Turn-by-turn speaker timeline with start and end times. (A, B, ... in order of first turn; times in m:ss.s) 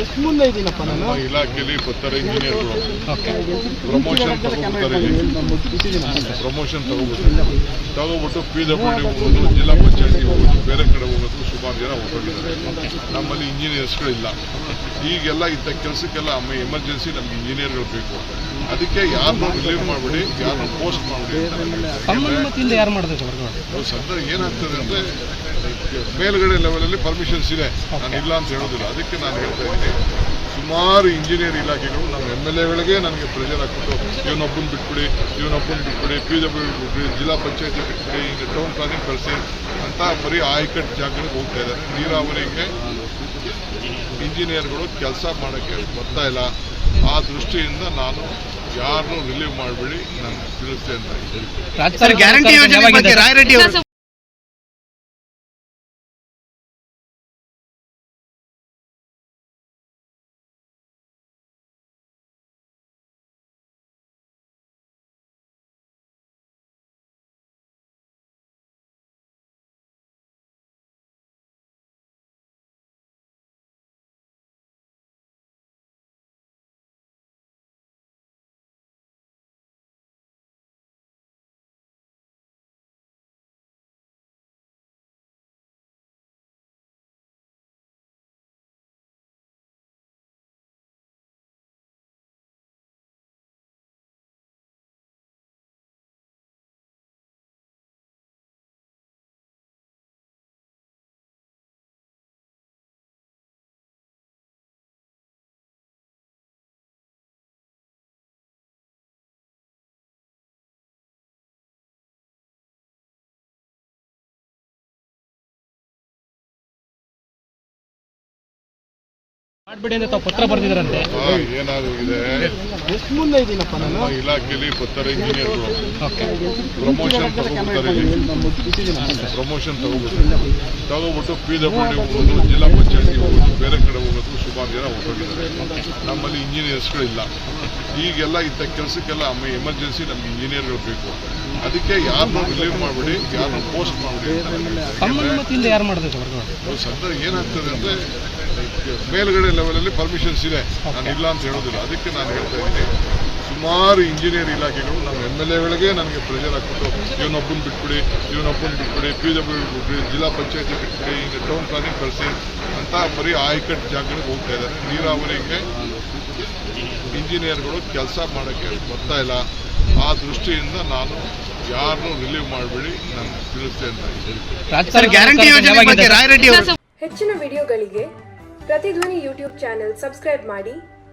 0:00.8-0:02.9 A
0:03.1-0:03.4 B
0:03.8-0:05.2 A
0:06.3-0:14.4 A
0:15.0-0:22.5 A
0:22.1-0:23.6 B
0:23.7-0:30.0 A
0:27.9-0:28.2 B
0:30.5-0:42.7 A
0:44.2-0:46.5 A
0:47.1-0:51.5 A
0:51.8-0:53.3 B
0:52.0-0:53.8 C
1:59.7-2:01.1 B
2:01.1-2:02.5 A
2:03.8-2:05.8 A
2:06.8-2:08.2 A
2:09.0-2:09.3 B
2:09.2-2:17.3 A
2:15.6-2:15.9 B
2:17.9-2:25.4 A
2:25.0-2:26.5 B
2:26.6-2:32.9 A
2:30.8-2:31.2 B
2:33.4-2:45.7 A
2:47.1-2:49.5 A
2:50.0-2:54.4 A
2:54.7-2:56.2 B
2:54.9-2:56.7 C
2:57.0-2:58.1 D
2:58.7-3:00.8 D